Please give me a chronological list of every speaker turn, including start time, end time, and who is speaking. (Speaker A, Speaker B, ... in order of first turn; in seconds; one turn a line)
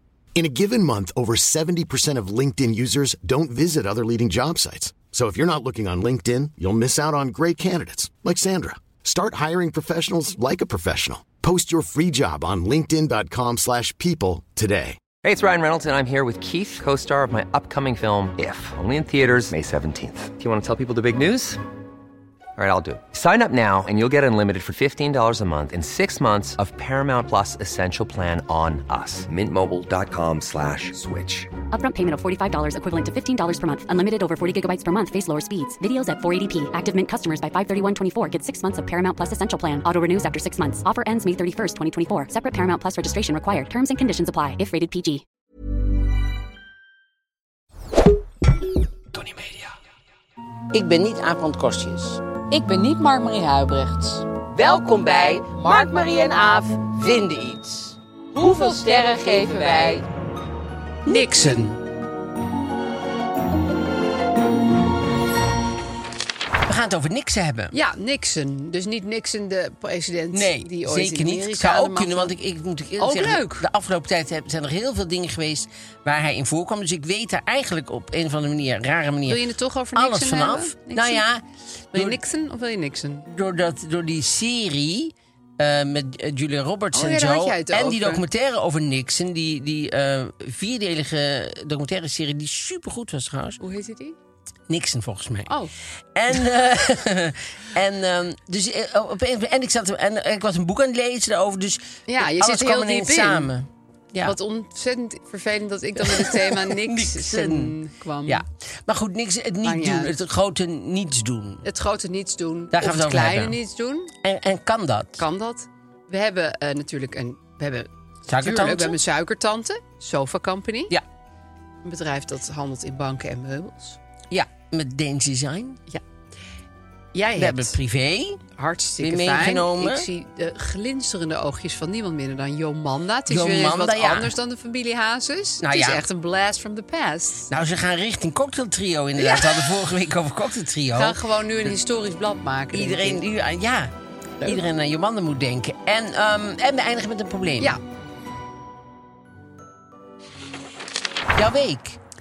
Speaker A: 0.3-15.0
Speaker B: 15.2-21.6
Speaker B: 22.6-31.5
Speaker C: 31.7-45.2
Speaker D: 49.1-49.6
Speaker D: 50.7-52.2
Speaker E: 52.5-54.3
Speaker D: 54.5-60.0
Speaker E: 58.4-59.9
Speaker D: 61.0-61.8
Speaker E: 61.1-61.7
Speaker D: 66.6-67.7
Speaker E: 67.7-72.3
Speaker D: 70.3-82.2
Speaker E: 73.0-73.6
Speaker E: 79.3-81.2
Speaker E: 81.9-83.3
Speaker D: 83.2-93.6
Speaker E: 86.9-88.2
Speaker E: 93.6-94.2
Speaker D: 94.7-95.5
Speaker E: 95.5-95.7
Speaker D: 96.1-104.4
Speaker E: 102.1-103.5
Speaker E: 104.2-108.4
Speaker D: 106.0-111.6
Speaker E: 109.6-110.2
Speaker E: 111.6-114.1
Speaker D: 112.7-113.6
Speaker D: 114.2-115.2
Speaker E: 115.2-120.9
Speaker D: 118.3-119.0
Speaker E: 121.8-124.0
Speaker D: 124.3-125.8
Speaker E: 127.1-127.8
Speaker D: 127.3-128.4
Speaker E: 128.5-137.5
Speaker D: 129.0-130.1
Speaker D: 133.3-134.3
Speaker D: 135.6-136.0
Speaker D: 137.5-141.2
Speaker E: 139.2-139.6
Speaker E: 140.9-143.2
Speaker D: 142.7-147.8
Speaker D: 151.3-152.0